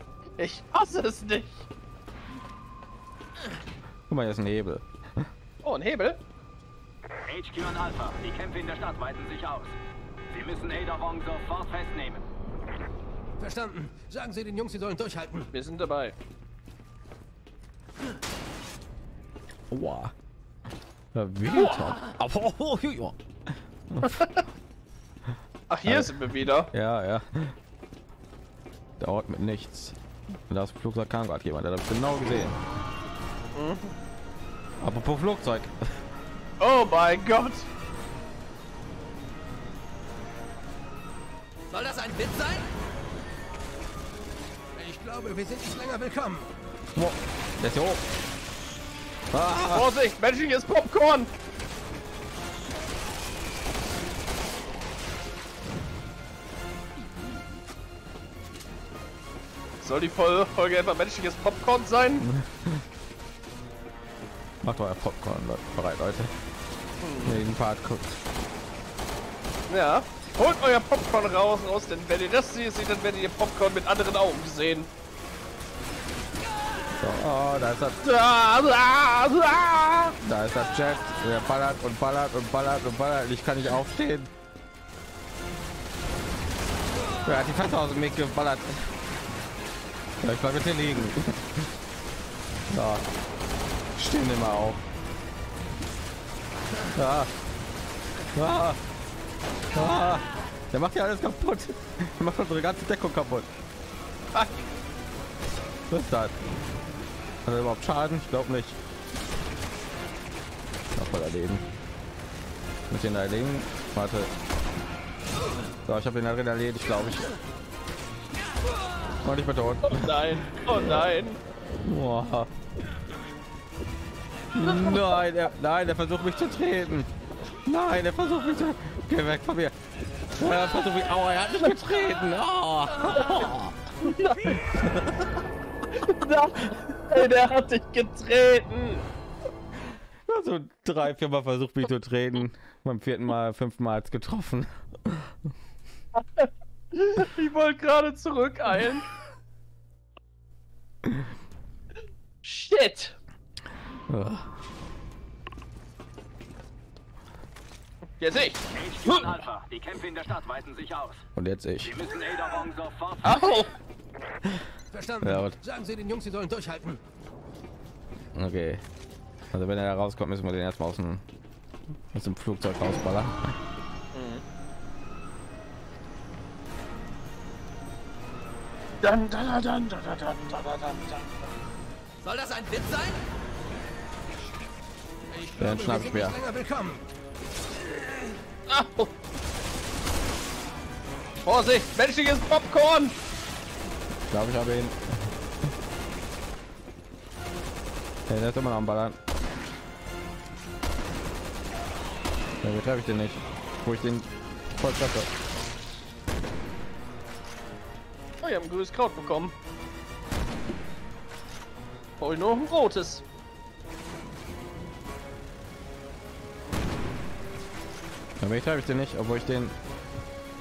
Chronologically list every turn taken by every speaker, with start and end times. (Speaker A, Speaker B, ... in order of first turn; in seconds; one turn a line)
Speaker A: 0.4-1.7
Speaker B: 4.1-5.3
Speaker A: 5.6-6.2
Speaker C: 7.3-9.7
Speaker C: 10.3-12.2
Speaker D: 13.4-15.5
Speaker A: 15.5-16.1
Speaker B: 19.7-20.1
Speaker B: 21.1-23.2
Speaker A: 21.5-21.9
Speaker B: 23.9-24.2
Speaker A: 24.0-24.4
Speaker A: 25.7-26.7
Speaker B: 25.9-27.6
Speaker B: 29.0-29.9
Speaker B: 30.5-32.6
Speaker A: 33.5-33.9
Speaker B: 34.8-35.7
Speaker A: 36.6-37.6
Speaker E: 41.7-42.7
Speaker D: 44.7-46.5
Speaker B: 46.9-48.0
Speaker B: 49.3-49.9
Speaker A: 49.7-51.3
Speaker A: 59.8-62.3
Speaker B: 62.2-62.8
Speaker B: 64.6-66.3
Speaker A: 67.0-67.4
Speaker B: 67.2-68.2
Speaker A: 69.7-74.9
Speaker B: 77.0-78.0
Speaker A: 78.0-80.1
Speaker B: 80.2-84.3
Speaker B: 87.2-88.9
Speaker B: 90.2-91.7
Speaker B: 92.7-93.1
Speaker B: 93.9-94.8
Speaker B: 96.9-97.3
Speaker B: 98.3-98.8
Speaker B: 99.7-103.5
Speaker A: 104.3-104.7
Speaker B: 105.9-106.3
Speaker B: 107.4-108.8
Speaker B: 110.9-111.7
Speaker B: 112.9-114.3
Speaker B: 115.8-117.3
Speaker B: 119.2-120.2
Speaker A: 119.8-121.4
Speaker B: 121.8-122.5
Speaker B: 124.5-127.1
Speaker A: 124.6-125.2
Speaker B: 127.7-129.7
Speaker B: 130.3-134.8
Speaker A: 134.0-134.8
Speaker A: 135.9-139.0
Speaker B: 140.3-145.3
Speaker A: 146.2-149.1
Speaker A: 152.4-153.1
Speaker B: 154.1-154.5
Speaker A: 158.2-159.2
Speaker C: 158.7-161.2
Speaker B: 161.3-161.9
Speaker C: 161.8-163.4
Speaker A: 163.2-163.7
Speaker D: 164.9-167.0
Speaker B: 165.2-165.5
Speaker B: 168.3-168.8
Speaker B: 169.5-171.2
Speaker B: 172.1-173.5
Speaker A: 174.1-174.4
Speaker A: 179.0-181.4
Speaker E: 182.2-183.2
Speaker D: 185.3-187.0
Speaker B: 185.6-186.4
Speaker A: 188.7-189.1
Speaker A: 191.4-193.1
Speaker B: 194.3-195.0
Speaker B: 198.3-199.2
Speaker B: 202.6-205.3
Speaker A: 208.4-209.5
Speaker A: 212.2-213.2
Speaker B: 218.4-219.7